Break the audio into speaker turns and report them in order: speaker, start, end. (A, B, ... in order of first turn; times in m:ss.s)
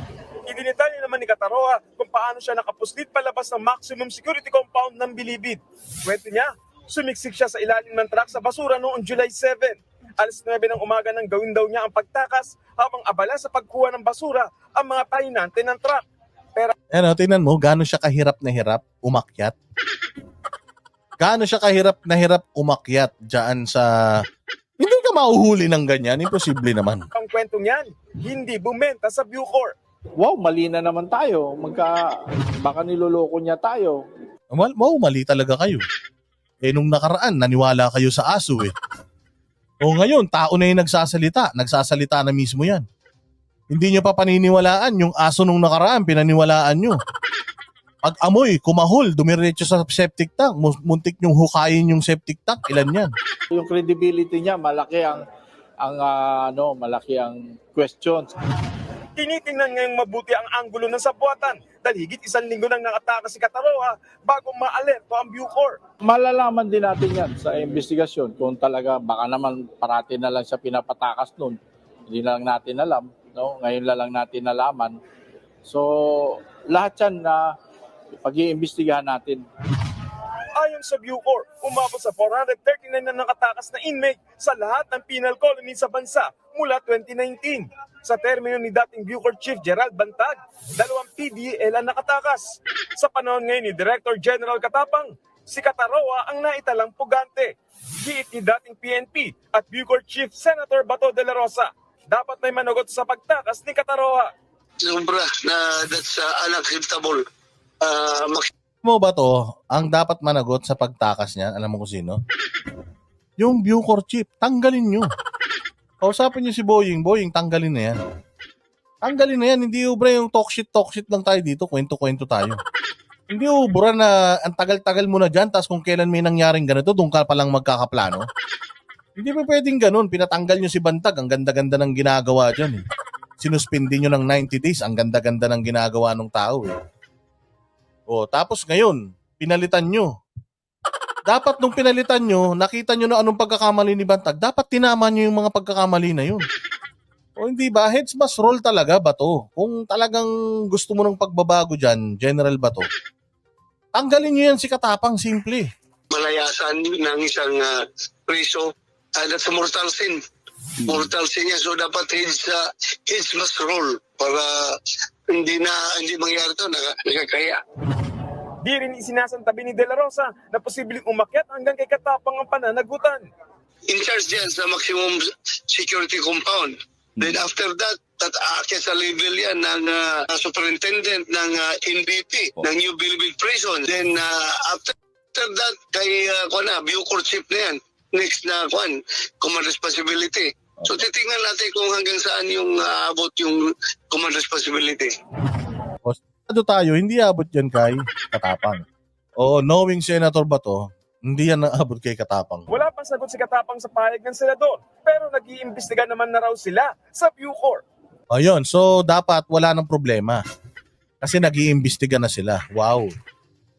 0:00.5-0:16.0 A
0:16.9-0:19.5 B
0:21.2-0:23.9 B
0:24.8-0:27.1 B
0:27.1-0:29.7 A
0:30.2-0:34.0 C
0:34.5-0:35.8 B
0:36.6-0:38.7 B
0:39.8-0:42.8 B
0:43.7-0:47.0 B
0:48.0-0:53.1 B
0:53.5-0:55.2 C
0:55.8-0:58.3 C
0:59.2-1:05.8 A
1:06.0-1:11.6 C
1:12.1-1:15.0 C
1:15.6-1:17.5 C
1:18.2-1:19.4 C
1:20.5-1:44.3 A
1:44.8-1:47.2 D
1:47.8-1:48.5 D
1:48.8-1:52.2 B
1:53.4-1:55.1 B
1:56.0-1:58.0 B
1:59.0-2:02.6 B
2:03.3-2:08.3 B
2:09.2-2:12.8 B
2:13.4-2:16.7 B
2:18.1-2:20.1 B
2:21.3-2:26.4 B
2:27.4-2:32.9 B
2:33.9-2:35.6 B
2:36.1-2:37.7 D
2:38.3-2:40.2 D
2:40.9-2:44.5 D
2:45.3-2:47.6 D
2:48.6-2:53.3 A
2:53.9-3:15.1 D
3:16.0-3:18.8 B
3:19.4-3:22.7 B
3:22.7-3:27.8 A
3:28.3-3:30.4 B
3:31.2-3:33.1 B